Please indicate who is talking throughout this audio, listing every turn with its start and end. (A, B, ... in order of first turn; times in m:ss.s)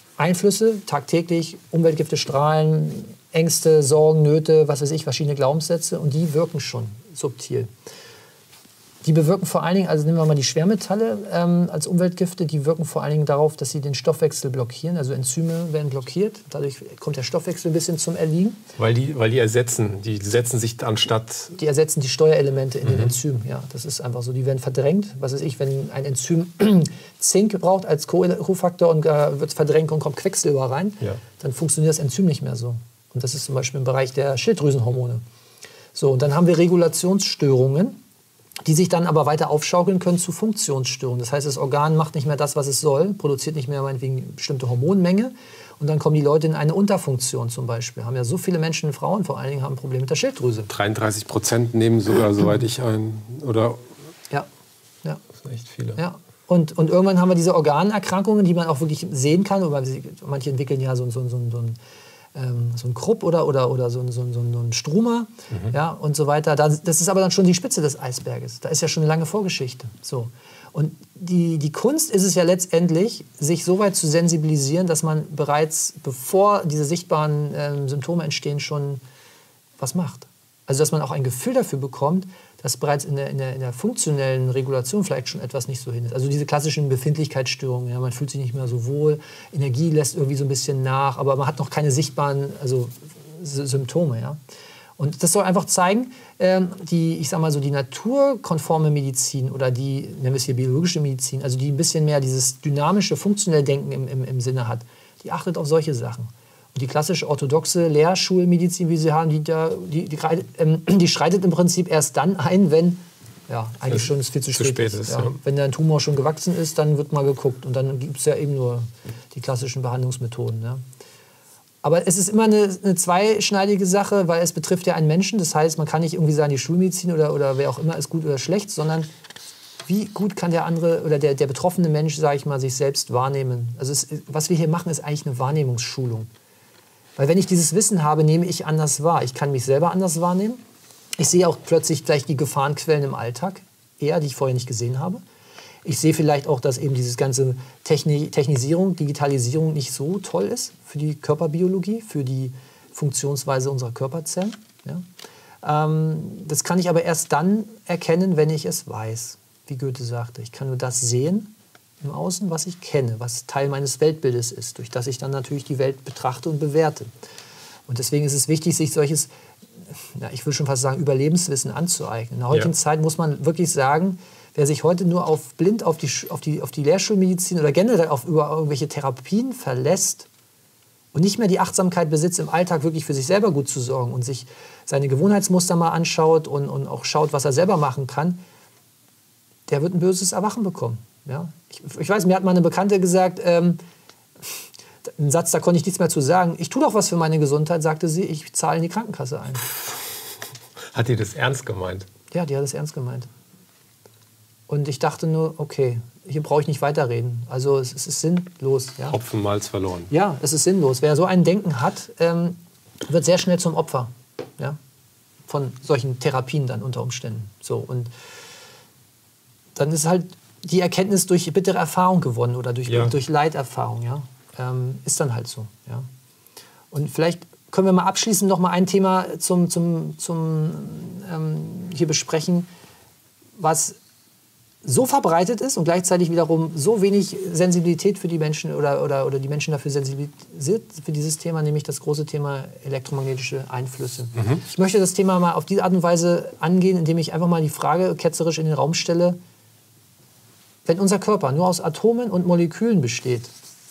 0:00.2-0:07.7 A
0:09.0-0:18.6 A
0:18.8-0:21.6 B
0:21.6-0:35.2 A
0:35.9-0:38.0 A
0:38.6-0:50.7 A
0:50.7-0:53.8 B
0:55.3-0:56.0 B
0:56.0-1:01.8 A
1:02.3-1:19.0 A
1:19.8-1:34.4 A
1:35.0-2:00.8 A
1:53.9-1:55.4 B
2:01.8-2:09.1 A
2:09.8-2:16.3 A
2:17.2-2:20.6 A
2:21.2-2:25.2 A
2:25.8-2:35.0 A
2:35.6-2:47.1 A
2:47.9-2:49.3 A
2:50.0-3:00.3 A
3:01.1-3:08.4 A
3:09.7-3:13.8 A
3:15.0-3:19.6 A
3:20.9-3:22.1 B
3:22.3-3:23.3 A
3:24.7-3:29.2 A
3:29.1-3:30.1 B
3:30.1-3:34.8 A
3:35.5-3:38.1 A
3:39.7-3:46.1 A
3:42.9-3:43.1 B
3:46.9-3:52.7 A
3:53.6-3:54.0 A
3:54.8-4:09.4 A
4:10.8-4:13.5 A